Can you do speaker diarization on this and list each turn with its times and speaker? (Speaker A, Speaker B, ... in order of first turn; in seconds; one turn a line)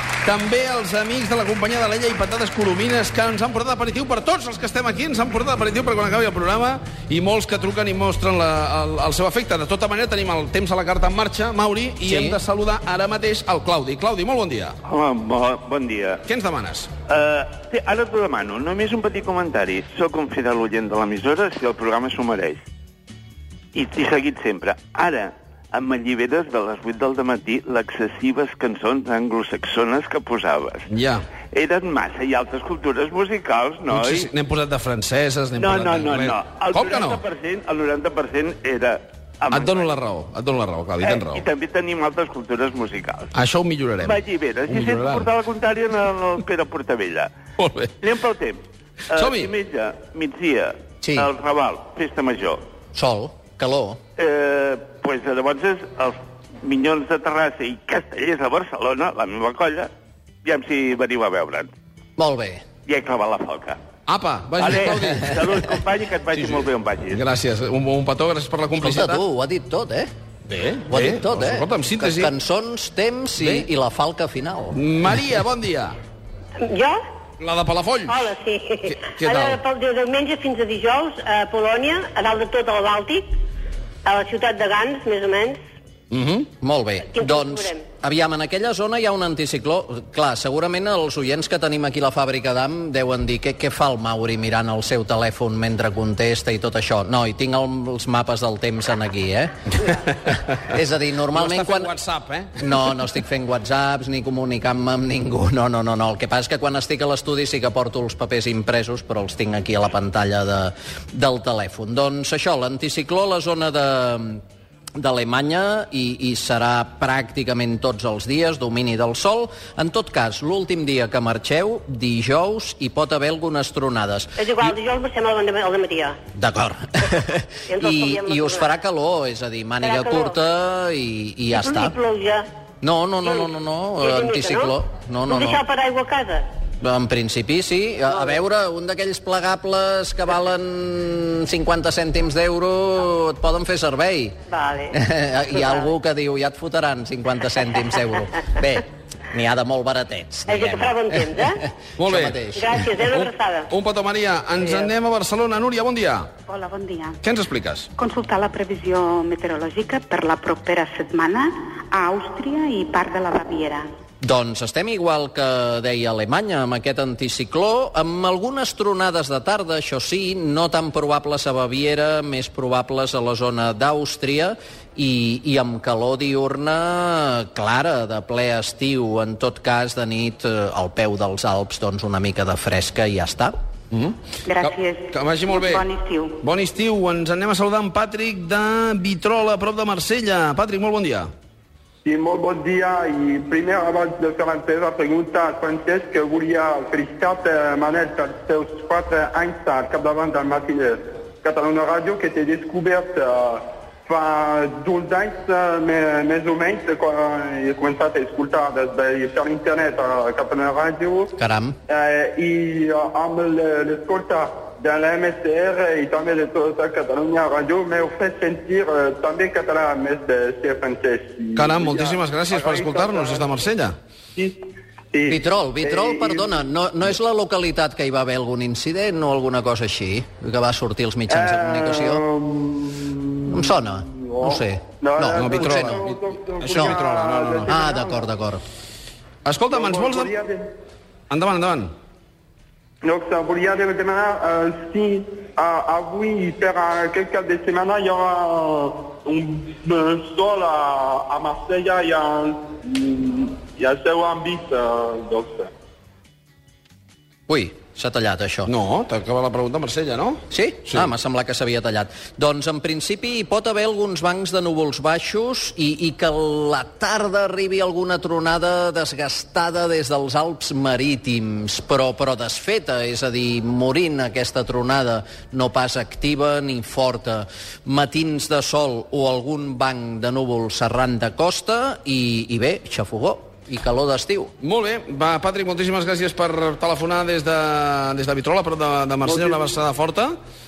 Speaker A: 0.2-14.8
Speaker B: 12.0-12.4
Speaker C: 14.8-16.2
Speaker A: 16.3-16.9
Speaker C: 17.1-22.6
Speaker C: 23.7-30.9
Speaker A: 30.9-31.2
Speaker C: 31.5-34.3
Speaker A: 33.9-37.2
Speaker C: 35.5-39.9
Speaker A: 39.5-41.5
Speaker C: 41.0-43.3
Speaker A: 43.3-45.3
Speaker C: 44.0-47.3
Speaker A: 47.6-48.0
Speaker C: 48.0-52.6
Speaker A: 49.1-49.5
Speaker B: 51.0-51.3
Speaker B: 52.9-54.0
Speaker C: 54.2-59.9
Speaker C: 60.4-61.7
Speaker B: 62.2-62.6
Speaker C: 62.9-63.8
Speaker A: 64.1-65.4
Speaker C: 64.6-67.2
Speaker A: 66.3-69.2
Speaker B: 68.8-70.1
Speaker A: 70.5-72.3
Speaker B: 70.9-74.8
Speaker A: 73.4-73.7
Speaker A: 74.7-76.0
Speaker D: 76.6-77.0
Speaker A: 77.4-78.3
Speaker D: 78.1-83.2
Speaker A: 78.9-79.6
Speaker D: 84.1-85.6
Speaker A: 86.1-86.5
Speaker B: 86.6-99.8
Speaker D: 87.1-87.8
Speaker B: 100.6-101.9
Speaker A: 101.3-102.8
Speaker B: 102.6-114.4
Speaker B: 115.0-124.7
Speaker D: 124.4-126.2
Speaker B: 126.3-132.0
Speaker D: 127.7-128.6
Speaker D: 129.8-130.2
Speaker D: 131.6-132.4
Speaker B: 132.8-135.6
Speaker D: 134.2-134.7
Speaker D: 135.3-136.4
Speaker B: 136.8-144.4
Speaker D: 144.5-144.9
Speaker B: 144.9-152.8
Speaker D: 150.5-151.6
Speaker A: 152.0-156.3
Speaker D: 152.6-153.7
Speaker E: 156.5-157.2
Speaker A: 157.2-157.9
Speaker E: 158.0-163.9
Speaker B: 164.2-183.5
Speaker A: 183.9-185.9
Speaker E: 184.4-186.4
Speaker A: 186.4-191.3
Speaker F: 192.0-211.3
Speaker B: 211.4-211.8
Speaker F: 211.9-223.7
Speaker A: 221.6-223.9
Speaker F: 224.4-226.6
Speaker B: 225.3-232.2
Speaker F: 231.3-238.3
Speaker B: 233.5-236.0
Speaker A: 235.3-237.7
Speaker B: 237.7-238.6
Speaker A: 239.4-240.3
Speaker F: 239.7-240.7
Speaker A: 241.3-241.9
Speaker F: 243.0-255.7
Speaker B: 257.5-258.7
Speaker A: 258.7-261.1
Speaker B: 260.5-284.5
Speaker A: 284.6-290.3